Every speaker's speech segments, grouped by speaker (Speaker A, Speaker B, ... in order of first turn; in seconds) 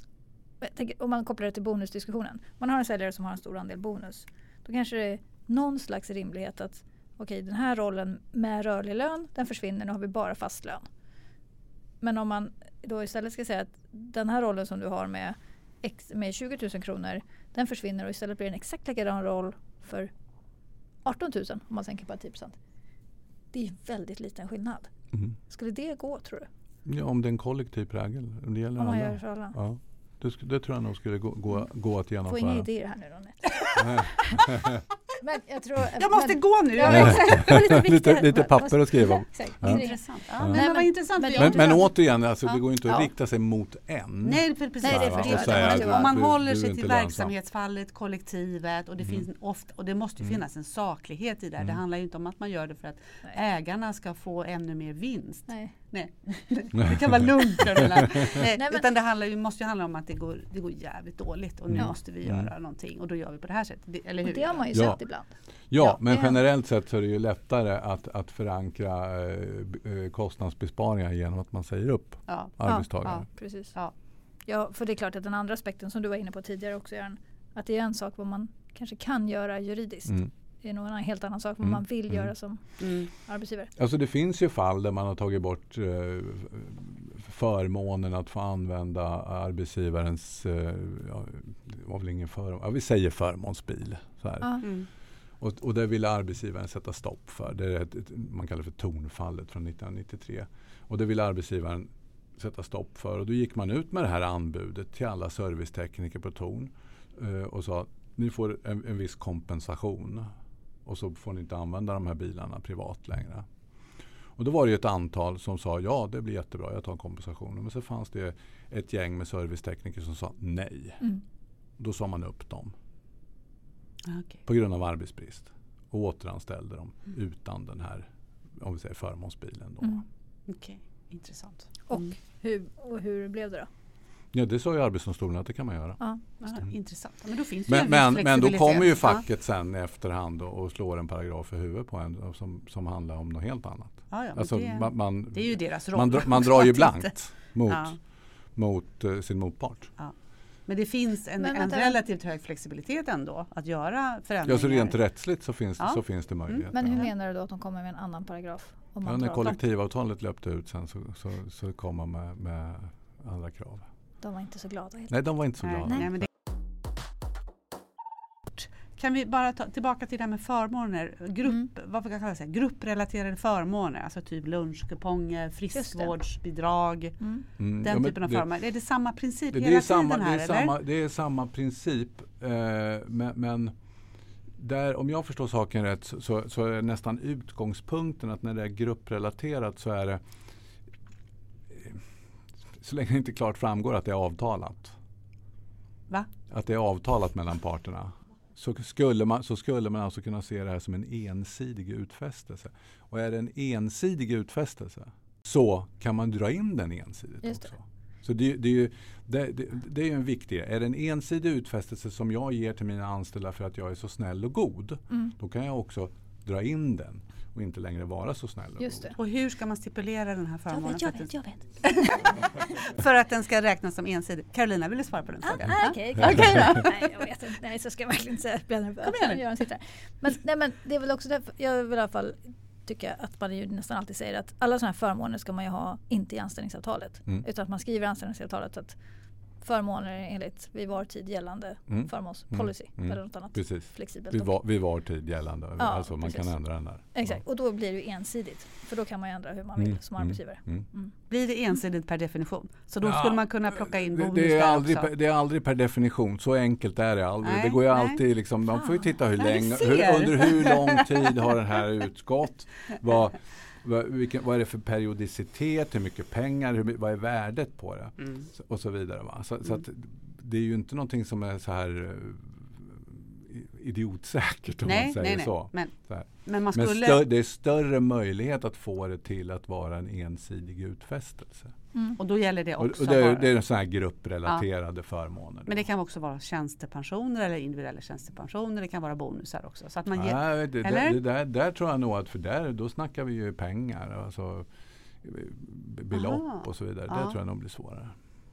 Speaker A: 0.6-10.9, 12.0-20.1, 21.1-22.6, 23.5-24.9, 25.5-26.5, 28.8-29.6, 32.3-34.6, 35.2-41.9, 44.8-46.2, 55.5-55.8, 58.6-58.8, 64.2-65.3, 66.1-66.3, 72.6-73.8, 74.5-83.7, 131.9-133.7, 151.4-152.0, 156.7-159.6, 164.2-165.2, 165.9-166.1, 175.8-176.1, 177.2-177.5, 218.8-219.2, 220.7-221.8, 225.4-239.0, 239.6-244.6, 245.8-251.1, 258.8-259.1, 281.9-282.2
Speaker B: 26.9-32.7, 33.8-34.8, 36.9-39.8, 40.4-40.6, 41.4-47.3, 61.7-62.5, 64.7-65.0, 65.7-73.3, 81.6-82.3, 83.8-94.8, 95.4-110.3, 110.8-113.5, 114.4-121.0, 121.8-122.7, 124.5-130.0, 134.3-136.0, 137.7-148.0, 148.6-149.9, 154.4-157.1, 159.1-163.9, 165.1-166.3, 177.6-178.5, 179.5-183.8, 184.6-190.2, 191.7-192.0, 192.8-195.0, 196.5-219.1, 241.9-247.4, 249.8-250.9, 253.0-281.8, 282.8-285.9, 290.1-294.7, 295.2-298.1
Speaker C: 36.0-37.6, 39.6-41.9, 42.4-43.0, 44.2-65.0, 72.3-73.9, 82.8-83.1, 94.6-94.9, 124.1-124.4, 130.5-132.1, 136.4-139.2, 144.1-147.2, 147.7-148.0, 150.7-155.0, 155.8-156.7, 165.6-166.3, 168.6-177.2, 177.8-180.7, 219.2-227.3, 229.0-229.4, 251.3-255.1, 257.4-258.2, 259.4-261.2, 274.9-277.2, 282.2-283.6, 285.7-291.2, 296.1-297.4